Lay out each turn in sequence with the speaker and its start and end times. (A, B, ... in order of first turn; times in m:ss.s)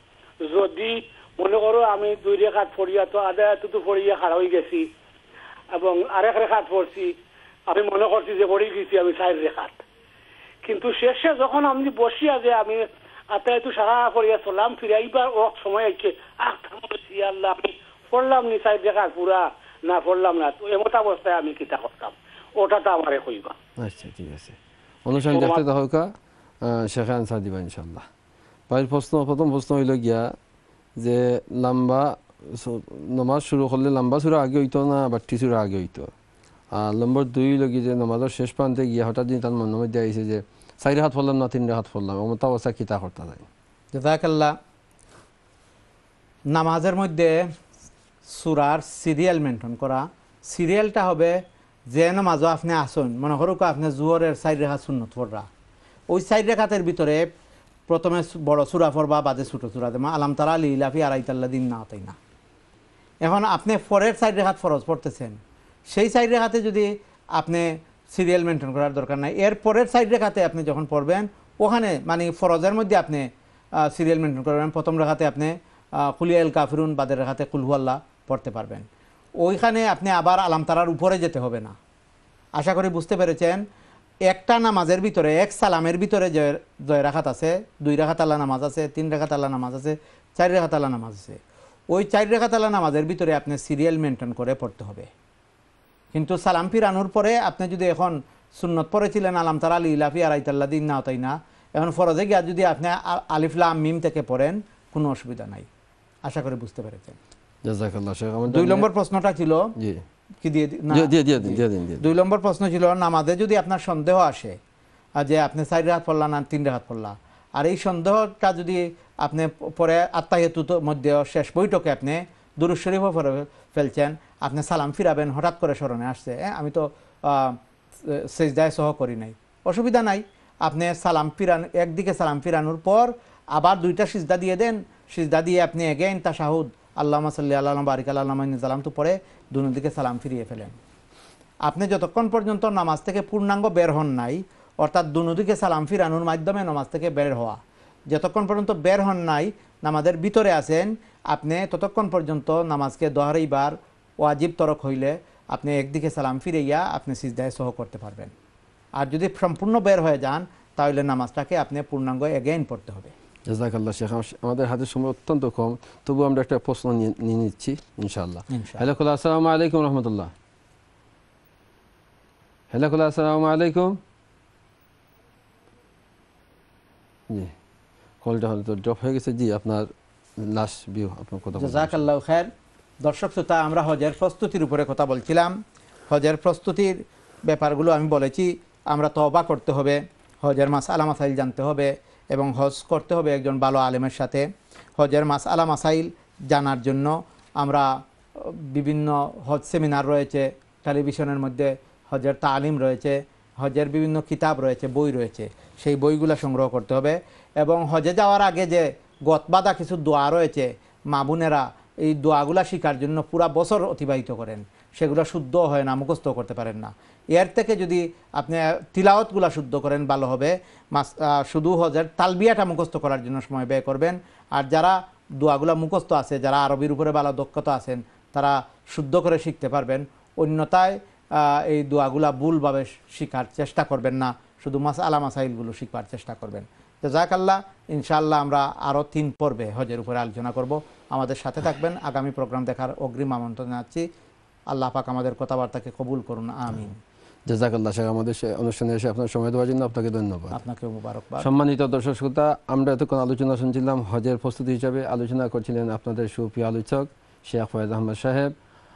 0:00.4-0:04.9 A
0:05.7-0:07.1 A
0:07.7-0:09.8 A
0:10.6-0:23.6 A
0:23.8-0:26.1 B
0:25.2-0:25.6 A
0:26.6-0:28.1 B
0:28.7-0:30.3 B
0:31.0-0:36.1 B
0:36.7-0:43.5 B
0:43.9-0:44.6 C
0:46.5-0:47.5 C
0:48.3-0:55.5 C
0:56.1-0:57.3 C
0:57.9-1:02.2 C
1:03.2-1:13.3 C
1:13.8-1:18.9 C
1:19.4-1:21.8 C
1:22.6-1:23.6 C
1:24.3-1:31.4 C
1:31.9-1:35.1 C
1:36.1-1:45.7 C
1:46.3-1:47.2 C
1:47.6-1:48.9 B
1:48.5-1:49.7 C
1:49.8-1:50.0 B
1:50.4-1:54.6 C
1:50.9-1:52.1 B
1:55.2-2:20.8 C
2:21.7-2:27.6 C
2:28.1-2:38.3 C
2:39.0-2:43.1 C
2:43.5-2:50.3 B
2:48.5-2:48.8 C
2:52.7-2:54.0 B
2:58.2-2:59.9 B
3:00.4-3:02.0 B
3:01.6-3:02.5 C
3:03.0-3:05.6 C
3:06.1-3:14.4 C
3:15.0-4:04.1 C
4:04.7-4:07.0 C
4:07.5-4:10.6 B
4:10.5-4:11.5 C
4:11.4-4:18.5 B